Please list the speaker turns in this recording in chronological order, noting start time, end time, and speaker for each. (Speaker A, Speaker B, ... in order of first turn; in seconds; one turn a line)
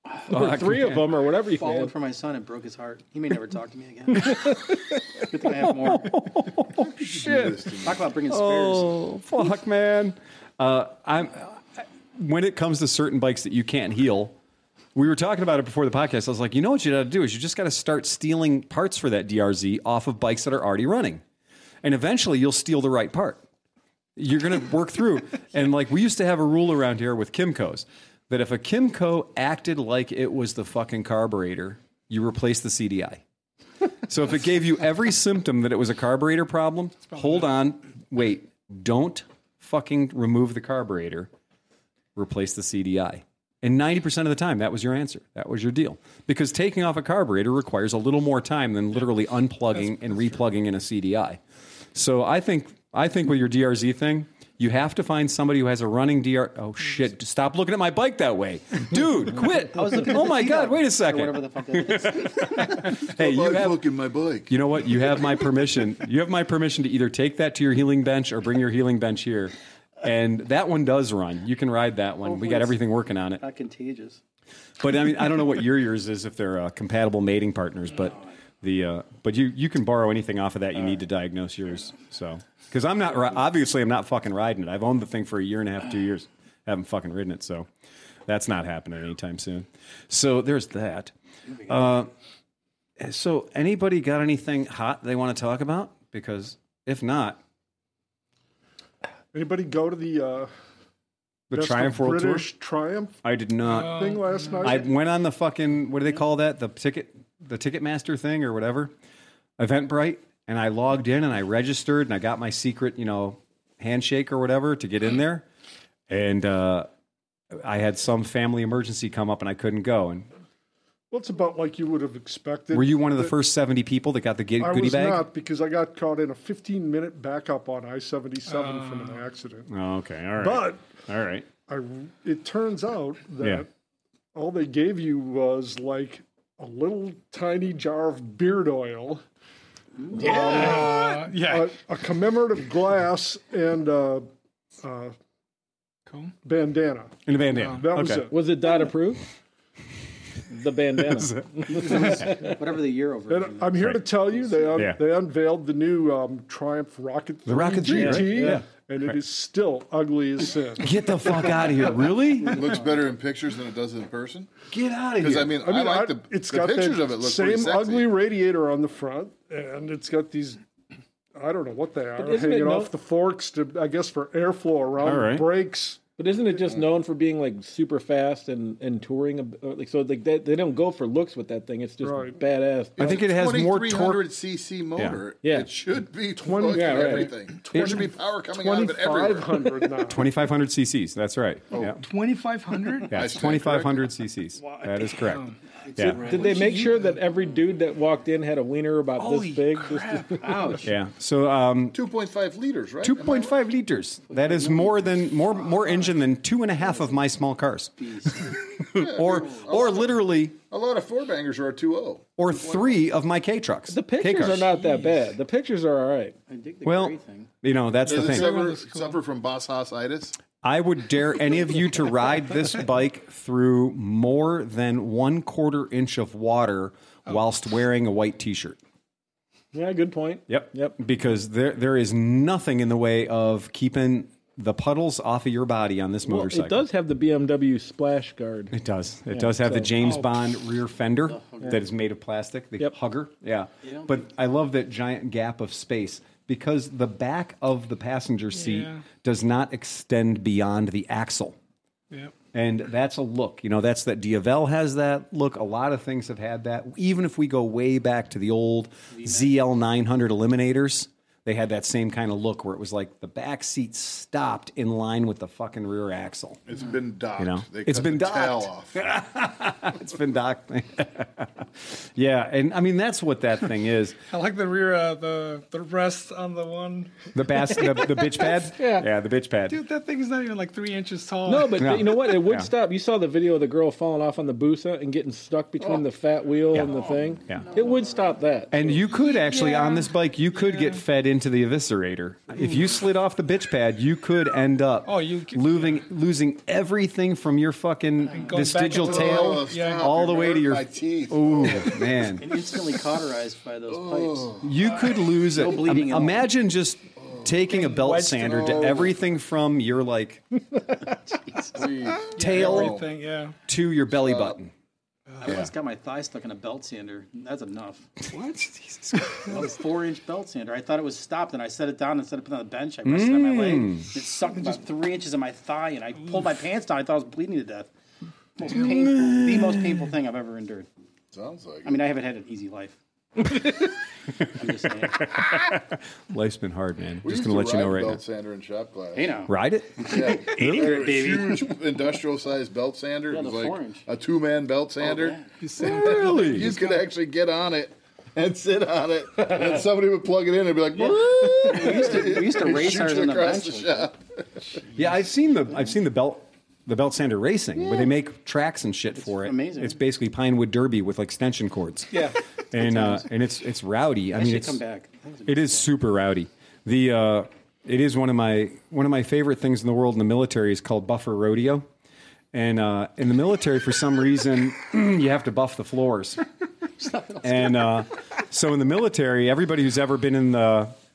Speaker A: 0.3-1.1
Speaker B: 0.3-1.9
Speaker C: 1.4-6.2
Speaker A: 5.5-7.6
Speaker D: 7.0-8.0
Speaker C: 7.3-9.0
Speaker A: 8.3-14.3
Speaker A: 14.9-21.2
Speaker A: 21.8-23.4
Speaker A: 24.1-33.2
Speaker A: 34.0-41.3
Speaker A: 42.1-51.4
Speaker A: 51.9-63.8
Speaker C: 59.7-62.8
Speaker D: 63.1-64.5
Speaker A: 64.5-73.4
Speaker C: 72.2-72.8
Speaker C: 73.4-74.2
Speaker A: 74.8-87.7
Speaker A: 88.2-91.1
Speaker A: 91.6-92.1
Speaker A: 93.0-97.4
Speaker E: 99.3-100.5
Speaker A: 101.5-102.5
Speaker E: 101.5-103.2
Speaker A: 103.2-104.1
Speaker F: 103.7-104.8
Speaker E: 103.8-104.9
Speaker A: 104.6-108.9
Speaker A: 109.6-115.5
Speaker A: 116.1-116.9
Speaker A: 117.5-120.3
Speaker E: 121.1-123.3
Speaker A: 122.7-125.3
Speaker E: 124.6-129.7
Speaker F: 128.5-129.2
Speaker A: 129.7-131.5
Speaker E: 130.4-130.8
Speaker E: 131.7-133.7
Speaker E: 134.3-139.2
Speaker E: 140.1-144.3
Speaker F: 140.1-141.7
Speaker B: 140.2-140.9
Speaker E: 144.8-145.1
Speaker F: 146.1-146.3
Speaker E: 146.4-147.2
Speaker A: 147.2-148.3
Speaker F: 147.6-147.8
Speaker E: 147.8-148.4
Speaker B: 148.3-149.2
Speaker B: 150.5-152.5
Speaker A: 151.1-152.3
Speaker C: 151.7-154.8
Speaker E: 153.3-161.0
Speaker A: 157.4-159.2
Speaker B: 157.8-158.6
Speaker A: 160.8-162.7
Speaker D: 162.4-164.5
Speaker A: 164.7-165.6
Speaker D: 165.2-168.1
Speaker E: 165.6-170.6
Speaker E: 171.4-176.0
Speaker B: 172.2-172.9
Speaker A: 175.0-175.5
Speaker B: 176.2-183.0
Speaker E: 182.0-182.4
Speaker D: 183.0-189.9
Speaker A: 183.0-184.2
Speaker B: 185.4-185.7
Speaker E: 186.4-190.3
Speaker B: 186.7-187.3
Speaker A: 187.7-188.1
Speaker A: 190.1-192.0
Speaker D: 191.7-192.0
Speaker F: 192.0-193.2
Speaker D: 193.1-194.1
Speaker A: 193.1-196.2
Speaker F: 195.1-195.6
Speaker B: 196.0-200.6
Speaker F: 196.2-197.2
Speaker A: 199.2-199.9
Speaker C: 200.4-200.9
Speaker A: 200.8-202.0
Speaker D: 201.9-203.6
Speaker A: 203.0-210.6
Speaker C: 208.0-208.6
Speaker D: 208.8-213.0
Speaker A: 212.4-214.7
Speaker B: 213.9-216.3
Speaker F: 214.7-215.2
Speaker C: 216.5-217.5
Speaker A: 216.8-218.5
Speaker D: 218.0-220.4
Speaker F: 218.1-219.2
Speaker A: 220.6-228.8
Speaker B: 229.7-230.9
Speaker A: 230.5-236.8
Speaker B: 236.2-238.7
Speaker A: 238.7-251.6
Speaker B: 239.3-239.9
Speaker F: 240.0-240.3
Speaker C: 241.3-241.8
Speaker C: 243.8-244.2
Speaker F: 248.5-249.0
Speaker A: 252.5-266.6
Speaker C: 259.1-259.5
Speaker D: 266.6-269.0
Speaker A: 267.4-274.2
Speaker F: 274.3-277.3
Speaker A: 277.3-279.8
Speaker B: 278.7-279.1
Speaker F: 279.7-281.9
Speaker B: 281.4-289.0
Speaker A: 281.8-282.7
Speaker C: 286.9-288.4
Speaker A: 288.7-302.6
Speaker F: 289.1-291.0
Speaker F: 295.1-296.0
Speaker F: 298.3-300.1
Speaker D: 298.9-302.1
Speaker C: 302.4-306.5
Speaker D: 303.9-304.6
Speaker A: 304.6-310.4
Speaker F: 307.7-308.9
Speaker D: 308.5-309.1
Speaker C: 311.0-312.1
Speaker D: 311.7-313.1
Speaker F: 312.3-313.6
Speaker A: 312.4-312.9
Speaker A: 313.7-314.7
Speaker D: 314.1-314.6
Speaker F: 315.3-315.5
Speaker C: 315.4-318.1
Speaker A: 318.3-319.6
Speaker C: 319.4-327.9
Speaker A: 323.0-324.1
Speaker C: 328.6-330.9
Speaker A: 328.7-330.0
Speaker D: 331.3-332.0
Speaker C: 331.8-333.9
Speaker C: 334.4-335.5
Speaker A: 335.4-338.2
Speaker D: 337.2-339.4
Speaker C: 339.1-341.7
Speaker A: 339.5-340.7
Speaker D: 340.1-354.1
Speaker C: 343.3-344.0
Speaker C: 345.0-345.5
Speaker F: 345.6-347.0
Speaker A: 345.8-346.7
Speaker C: 350.9-354.1
Speaker A: 354.9-364.8
Speaker C: 359.2-360.0
Speaker C: 362.8-363.2
Speaker C: 364.3-365.9
Speaker A: 365.4-371.9
Speaker A: 372.5-376.4
Speaker C: 377.0-378.1
Speaker A: 377.4-380.9